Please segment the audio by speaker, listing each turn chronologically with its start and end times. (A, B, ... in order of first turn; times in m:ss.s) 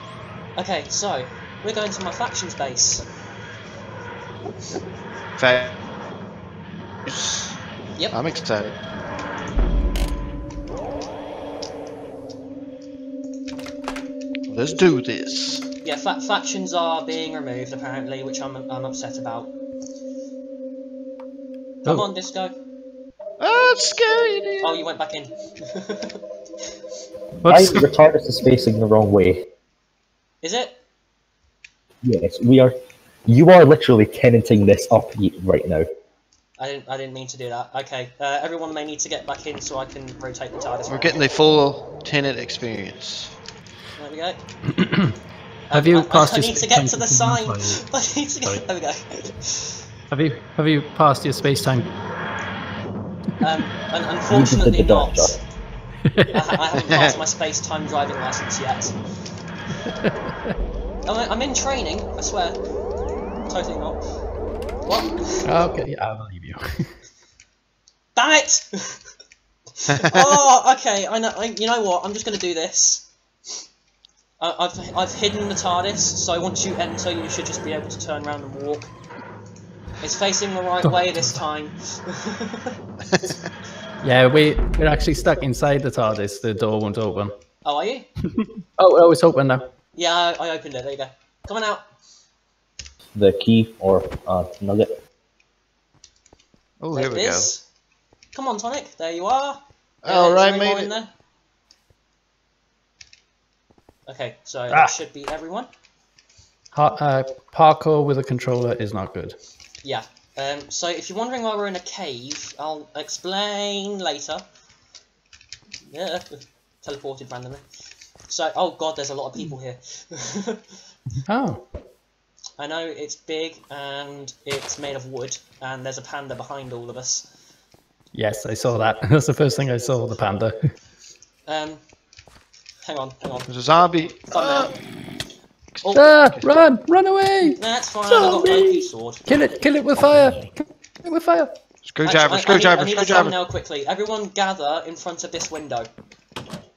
0:00.6-0:03.1 A
0:05.4-0:05.8 B
0:07.0-0:07.6 B
0:08.1-0:08.8 B
0:14.5-0:15.6 B
0:15.8-0:19.5 A
0:21.8-0:22.5 A
0:23.4-0:24.8 B
0:24.6-0:26.2 A
0:27.4-0:28.0 C
0:27.5-0:29.5 D
0:30.4-0:30.8 A
0:32.0-0:32.8 D
0:33.3-0:35.9 D
0:36.6-0:41.2 A
0:40.9-0:43.3 B
0:44.0-0:44.4 A
0:44.7-0:45.1 C
0:45.7-0:49.8 A
0:45.7-0:47.8 C
0:50.1-0:51.9 C
0:53.4-0:55.4 A
0:54.3-0:55.4 D
0:56.1-0:56.6 C
0:56.3-0:58.9 A
0:56.9-0:57.2 B
1:01.0-1:02.6 A
1:03.5-1:04.0 A
1:04.8-1:05.4 A
1:05.4-1:06.9 C
1:08.2-1:09.0 A
1:09.8-1:13.1 A
1:09.9-1:10.4 B
1:14.4-1:18.9 A
1:20.0-1:22.8 A
1:20.8-1:21.4 C
1:23.1-1:23.4 B
1:24.0-1:27.3 C
1:27.6-1:28.1 A
1:28.4-1:29.6 C
1:30.0-1:31.8 A
1:33.1-1:35.0 D
1:36.8-1:37.5 B
1:36.9-1:37.6 A
1:38.3-1:41.1 A
1:40.0-1:40.9 B
1:44.1-1:45.7 A
1:46.7-1:49.4 C
1:49.8-1:54.4 A
1:55.9-1:57.6 A
1:58.3-2:00.7 A
2:01.2-2:01.6 C
2:02.6-2:07.3 A
2:08.1-2:10.7 C
2:11.5-2:11.8 A
2:12.9-2:13.5 A
2:13.5-2:14.7 B
2:14.3-2:14.7 A
2:15.9-2:20.5 C
2:17.6-2:19.2 A
2:21.0-2:21.5 C
2:21.8-2:23.4 B
2:22.0-2:25.9 A